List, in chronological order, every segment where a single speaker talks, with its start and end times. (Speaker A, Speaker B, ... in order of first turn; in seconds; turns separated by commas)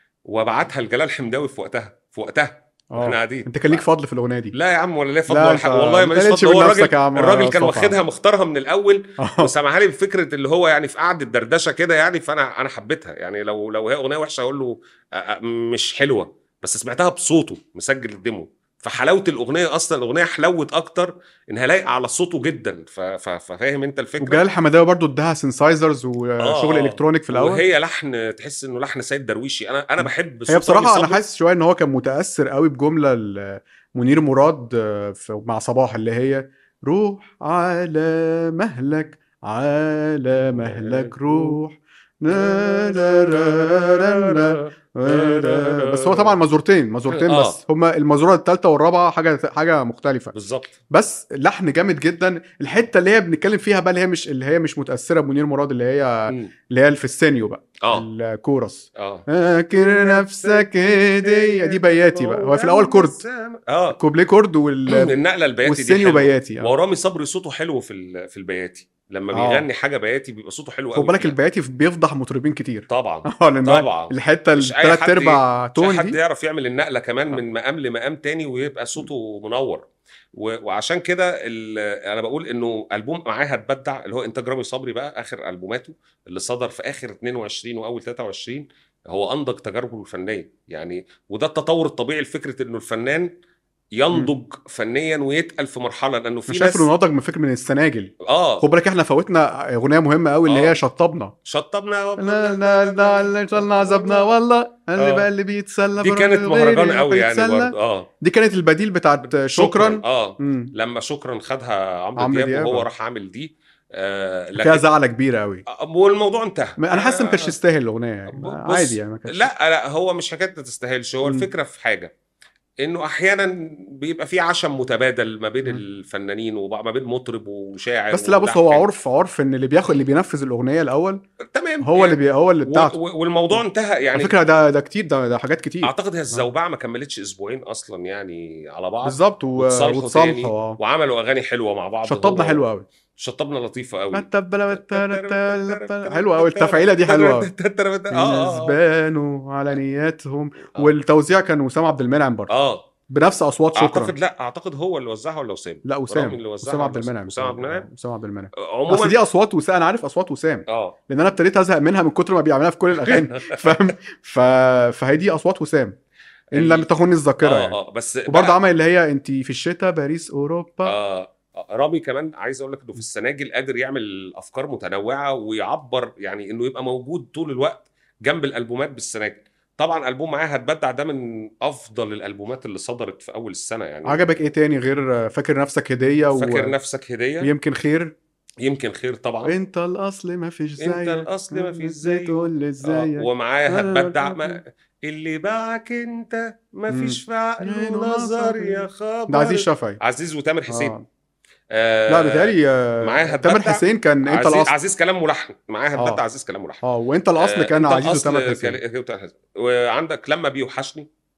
Speaker A: 0.3-3.9, Speaker B: 2.9-4.5, Speaker A: 4.5-24.4, Speaker B: 5.3-8.0, Speaker B: 9.2-9.5, Speaker B: 24.2-27.6, Speaker A: 26.4-31.2, Speaker B: 30.0-50.3, Speaker A: 40.5-41.6, Speaker A: 42.3-46.4, Speaker A: 47.1-47.6, Speaker A: 50.3-50.8, Speaker B: 50.9-63.2, Speaker A: 59.0-64.0, Speaker B: 64.0-65.1, Speaker A: 64.9-71.3, Speaker B: 65.7-66.7, Speaker B: 69.3-69.7, Speaker B: 70.9-76.2, Speaker A: 72.9-93.3, Speaker A: 94.0-96.9, Speaker B: 96.5-101.3, Speaker A: 98.3-98.7, Speaker A: 100.5-100.8, Speaker A: 101.5-104.3, Speaker B: 102.2-110.7, Speaker A: 105.0-105.3, Speaker A: 106.0-108.1, Speaker A: 109.2-114.9, Speaker B: 112.2-112.9, Speaker B: 114.6-115.6, Speaker A: 115.7-117.5, Speaker B: 116.8-119.5, Speaker A: 118.3-122.1, Speaker A: 122.8-128.9, Speaker B: 128.1-131.2, Speaker A: 131.5-134.3, Speaker B: 131.8-133.0, Speaker B: 134.1-136.5, Speaker A: 135.8-142.6, Speaker B: 139.0-140.8, Speaker B: 142.1-142.8, Speaker A: 143.2-148.8, Speaker B: 144.1-147.5, Speaker B: 148.1-152.5, Speaker A: 152.5-152.9, Speaker B: 153.1-154.1, Speaker A: 153.8-157.9, Speaker B: 155.9-166.0, Speaker A: 158.6-159.2, Speaker A: 160.7-161.0, Speaker A: 163.0-163.9, Speaker A: 166.5-166.9, Speaker B: 166.6-171.0, Speaker A: 167.4-168.6, Speaker A: 170.8-184.3, Speaker B: 184.1-186.8, Speaker A: 186.3-187.5, Speaker B: 187.4-188.2, Speaker A: 188.6-189.6, Speaker B: 189.5-194.6, Speaker A: 190.8-200.9, Speaker B: 196.9-200.0, Speaker B: 200.7-201.1, Speaker A: 201.7-206.8, Speaker B: 202.1-204.7, Speaker B: 206.0-206.2, Speaker B: 206.8-208.8, Speaker A: 207.4-211.1